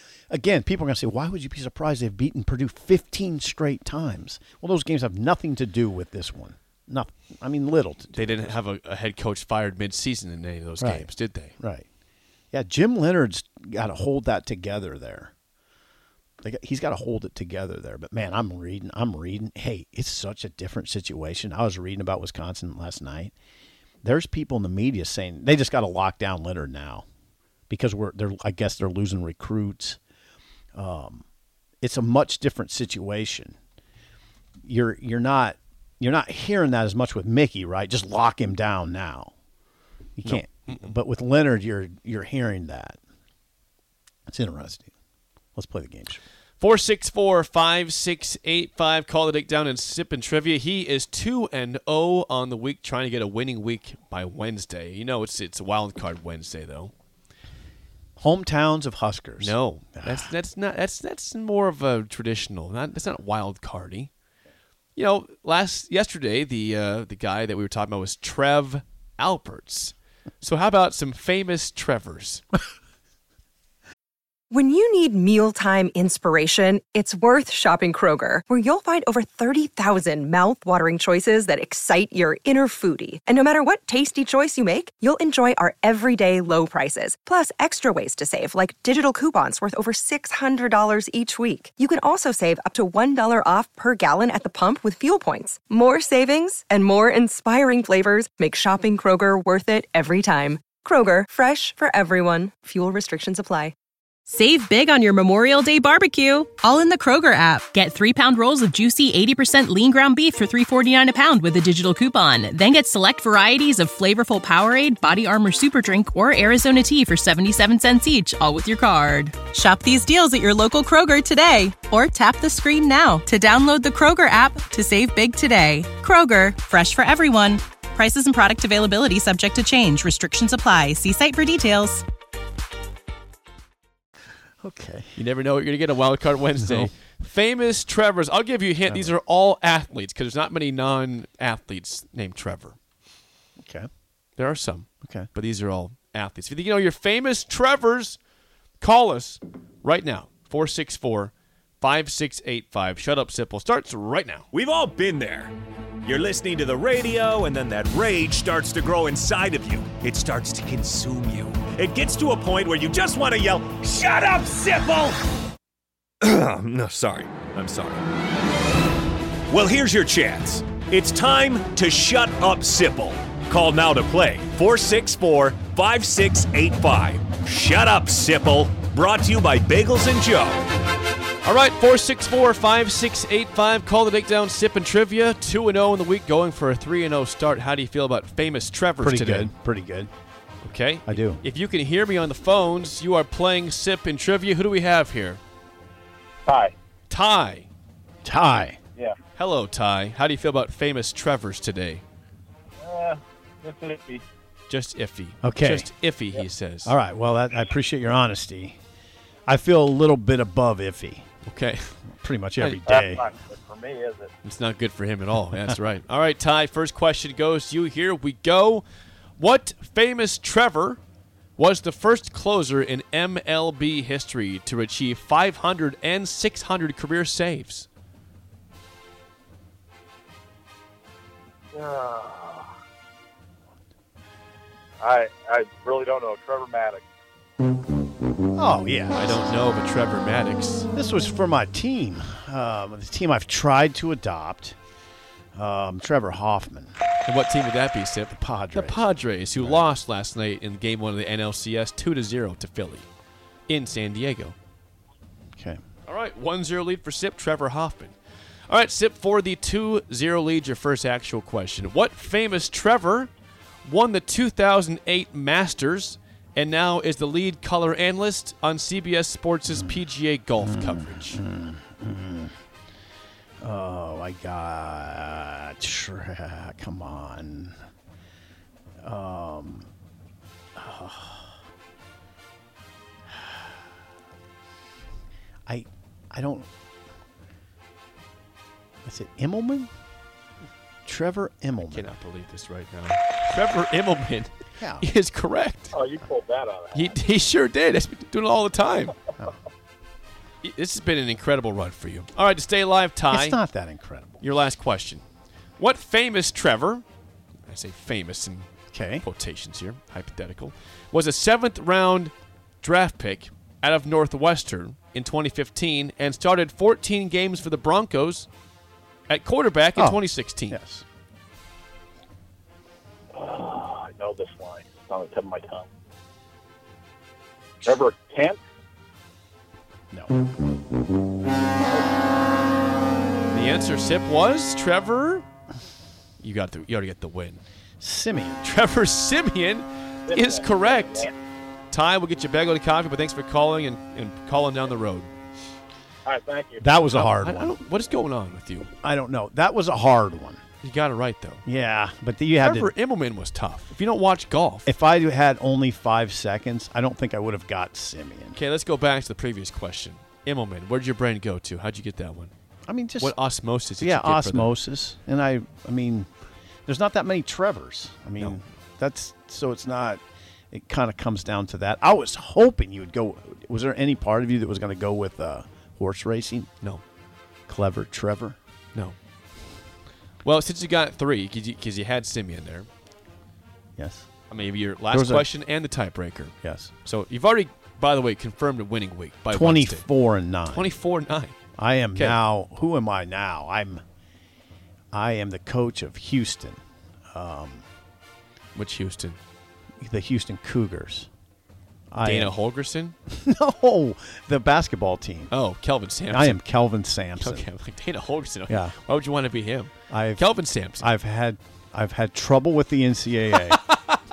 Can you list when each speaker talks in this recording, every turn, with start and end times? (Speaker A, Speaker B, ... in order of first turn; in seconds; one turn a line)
Speaker A: 0.3-8.6
Speaker B: 8.1-11.5
Speaker A: 10.8-11.8
Speaker A: 12.5-15.3
Speaker A: 16.4-23.3
Speaker A: 24.0-27.0
Speaker A: 27.7-30.0
Speaker A: 30.7-31.2
Speaker A: 31.8-33.5
Speaker A: 34.6-39.3
Speaker A: 40.2-43.0
Speaker B: 40.2-40.9
Speaker A: 44.3-44.9
Speaker A: 45.5-46.2
Speaker B: 46.6-56.9
Speaker A: 58.2-60.3
Speaker B: 59.4-64.1
Speaker B: 65.0-72.4
Speaker C: 74.5-103.7
Speaker D: 104.3-132.0
Speaker A: 134.6-135.1
Speaker B: 135.2-142.8
Speaker A: 143.6-143.9
Speaker B: 144.4-148.2
Speaker A: 145.0-145.3
Speaker B: 148.8-154.5
Speaker E: 154.5-165.2
Speaker E: 166.2-168.0
Speaker E: 169.5-180.6
Speaker B: 181.4-189.5
Speaker A: 189.0-190.1
Speaker B: 190.6-195.4
Speaker A: 191.1-191.4
Speaker F: 196.4-196.7
Speaker B: 197.1-197.7
Speaker A: 198.2-198.8
Speaker B: 199.4-202.0
Speaker F: 202.8-204.2
Speaker B: 204.7-206.9
Speaker A: 205.4-205.9
Speaker A: 206.8-208.8
Speaker A: 209.5-211.3
Speaker B: 211.4-212.0
Speaker A: 212.1-213.3
Speaker F: 212.9-214.3
Speaker B: 214.4-218.8
Speaker B: 219.4-221.0
Speaker B: 221.6-227.9
Speaker F: 231.7-232.7
Speaker F: 235.0-237.0
Speaker A: 238.5-239.4
Speaker B: 239.1-240.9
Speaker A: 240.9-244.8
Speaker A: 245.5-246.9
Speaker B: 247.3-253.1
Speaker A: 248.3-249.8
Speaker B: 253.7-254.6
Speaker B: 256.1-258.1
Speaker B: 258.7-263.3
Speaker B: 263.8-271.4
Speaker A: 269.7-270.0
Speaker A: 270.6-272.5
Speaker A: 273.6-277.7
Speaker A: 279.0-279.9
Speaker A: 280.8-281.6
Speaker A: 283.3-283.6
Speaker A: 285.7-286.7
Speaker A: 289.0-289.9
Speaker A: 291.1-292.1
Speaker B: 291.9-295.9
Speaker A: 294.8-295.1
Speaker F: 295.9-297.1
Speaker B: 296.9-299.1
Speaker B: 300.6-303.6
Speaker A: 303.3-304.4
Speaker B: 304.4-305.2
Speaker B: 305.8-307.0
Speaker B: 307.7-308.7
Speaker A: 308.9-309.2
Speaker B: 309.2-318.5
Speaker B: 319.3-320.8
Speaker A: 319.9-321.0
Speaker F: 323.3-325.9
Speaker F: 327.8-328.6
Speaker B: 333.5-335.4
Speaker B: 336.4-337.6
Speaker A: 338.0-338.7
Speaker B: 338.6-341.3
Speaker F: 340.3-341.3
Speaker B: 341.9-345.3
Speaker F: 346.2-346.9
Speaker A: 346.8-347.8
Speaker B: 347.1-348.9
Speaker A: 349.0-350.6
Speaker B: 350.8-351.6
Speaker A: 351.6-352.9
Speaker B: 352.6-354.9
Speaker A: 354.8-358.6
Speaker B: 358.6-362.5
Speaker A: 362.9-363.3
Speaker B: 363.2-364.7
Speaker A: 364.0-366.3
Speaker A: 366.9-376.7
Speaker A: 377.7-378.6
Speaker B: 380.4-382.9
Speaker A: 384.0-384.3
Speaker B: 384.5-386.5
Speaker A: 385.1-385.4
Speaker A: 386.6-386.9
Speaker B: 387.0-390.1
Speaker A: 389.5-390.9
Speaker B: 390.7-391.5
Speaker A: 391.8-394.0
Speaker A: 395.1-396.8
Speaker A: 397.3-397.8
Speaker B: 398.7-399.4
Speaker A: 400.0-401.3
Speaker A: 402.1-402.5
Speaker B: 402.2-403.1
Speaker A: 403.3-405.5
Speaker B: 405.5-406.6
Speaker A: 406.3-407.7
Speaker B: 407.4-411.0
Speaker A: 408.7-408.9
Speaker A: 410.1-410.5
Speaker A: 411.0-413.8
Speaker B: 413.6-414.2